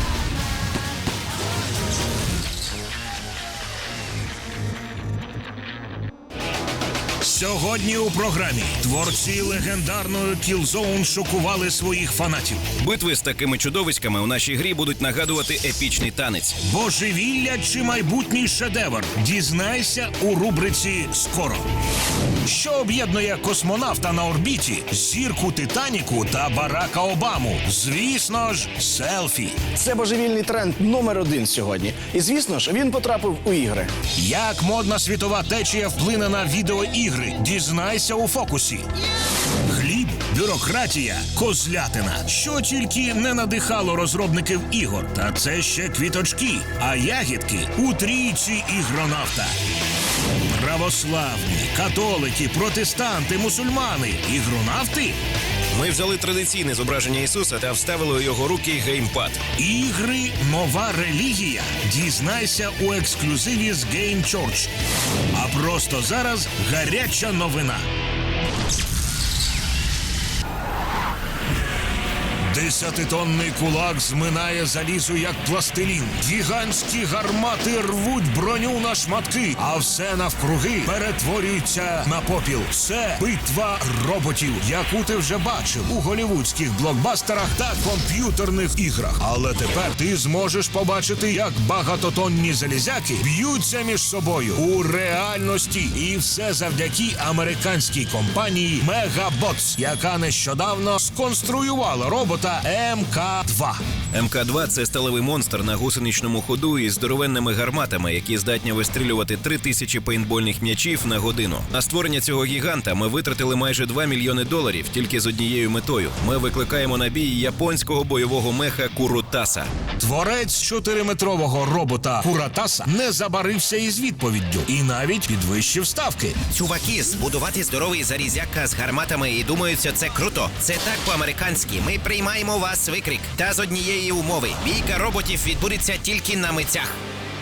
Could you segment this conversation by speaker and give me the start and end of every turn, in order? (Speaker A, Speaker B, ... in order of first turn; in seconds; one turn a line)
Speaker A: 7.2-12.6
Speaker B: 12.8-16.6
Speaker A: 16.6-21.6
Speaker A: 22.4-29.6
Speaker C: 29.7-33.9
Speaker A: 34.2-38.9
Speaker A: 39.7-49.5
Speaker A: 50.5-55.2
Speaker B: 55.7-59.4
Speaker A: 59.6-64.7
Speaker A: 65.3-67.8
Speaker A: 72.4-103.8
Speaker B: 104.1-119.7
Speaker A: 120.0-126.4
Speaker D: 126.5-136.9